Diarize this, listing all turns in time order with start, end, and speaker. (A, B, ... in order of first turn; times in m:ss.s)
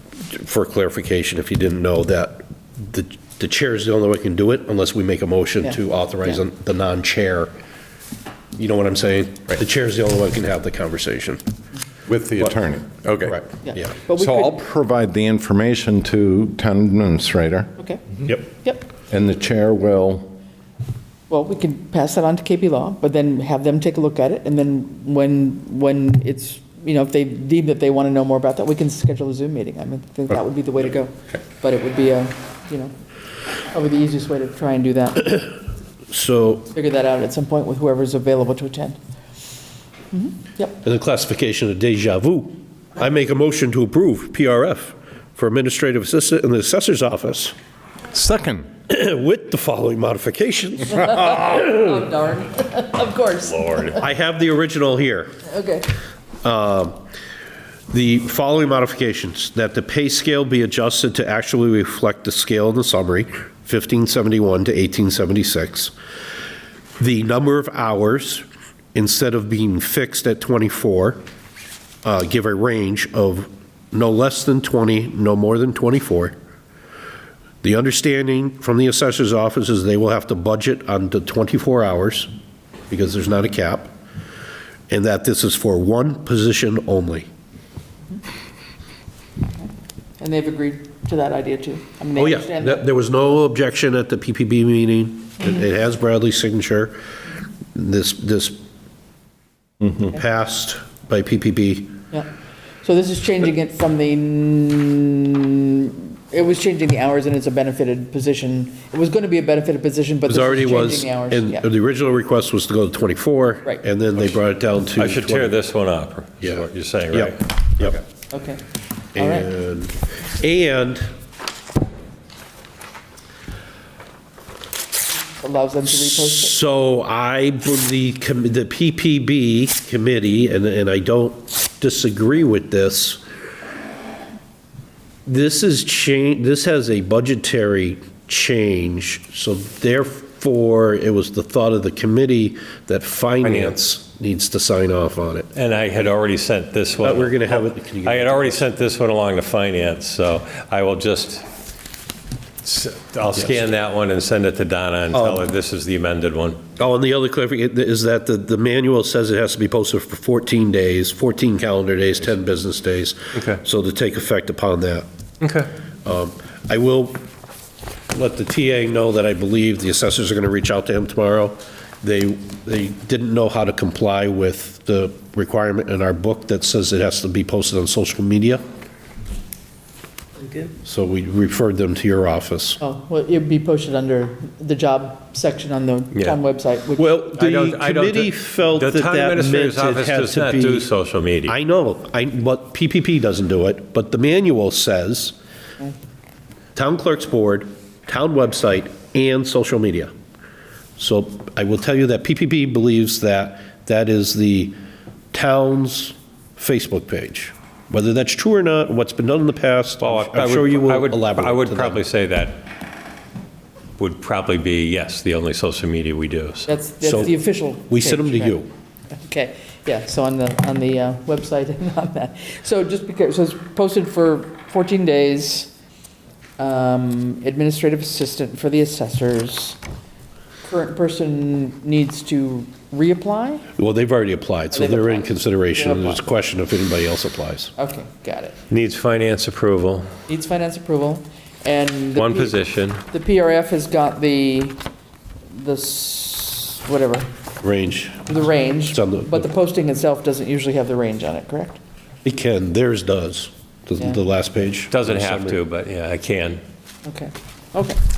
0:00.3-0:07.5 A
0:08.6-0:11.4 A
0:12.1-0:13.4 B
0:13.2-0:13.9 A
0:13.6-0:14.6 C
0:14.1-0:17.7 B
0:18.6-0:18.9 C
0:19.1-0:20.3 B
0:21.3-0:32.9 C
0:33.7-0:35.5 C
0:36.1-0:36.7 A
0:36.7-0:39.0 C
0:40.1-0:40.8 C
0:40.8-0:47.5 A
0:48.1-0:48.7 B
0:48.9-0:51.9 A
0:51.0-0:54.0 C
0:53.4-0:54.0 D
0:54.0-0:55.3 A
0:55.4-0:55.9 C
0:56.4-0:57.0 A
0:57.9-1:05.9 A
1:07.0-1:11.2 A
1:12.0-1:16.3 A
1:17.6-1:22.3 A
1:22.9-1:23.9 A
1:24.9-1:27.3 A
1:30.2-1:32.8 C
1:32.2-1:37.0 A
1:37.7-1:38.6 A
1:40.0-1:42.0 A
1:42.8-1:51.6 C
1:50.3-1:55.6 A
1:55.0-1:57.9 D
1:56.4-1:58.0 A
1:58.3-1:58.6 C
1:59.1-2:01.1 A
1:59.2-1:59.5 C
2:05.2-2:06.6 C
2:05.9-2:13.2 A
2:15.2-2:25.5 A
2:23.4-2:23.8 D
2:25.5-2:31.4 D
2:27.0-2:28.7 A
2:32.6-2:36.6 D
2:35.1-2:35.4 A
2:36.8-2:45.0 A
2:45.4-2:45.7 D
2:46.0-2:47.2 A
2:48.1-2:58.6 A
3:00.8-3:02.8 A
3:02.8-3:07.1 C
3:07.0-3:10.9 A
3:07.3-3:11.6 D
3:11.4-3:15.3 A
3:16.8-3:20.1 A
3:21.0-3:24.8 A
3:25.3-3:32.0 A
3:30.0-3:32.6 D
3:34.0-3:36.7 D
3:36.6-3:38.6 C
3:37.0-3:37.3 A
3:37.9-3:38.7 A
3:39.1-3:45.7 C
3:46.6-3:49.8 C
3:50.6-3:53.6 C
3:53.8-3:57.7 A
3:54.7-3:56.3 C
3:57.8-3:58.6 C
3:58.7-4:00.1 D
4:00.3-4:04.8 C
4:02.1-4:03.0 D
4:05.5-4:07.3 C
4:07.6-4:08.3 A
4:08.2-4:11.8 C
4:08.9-4:09.4 A
4:12.2-4:15.6 A
4:14.9-4:16.6 D
4:17.0-4:18.0 C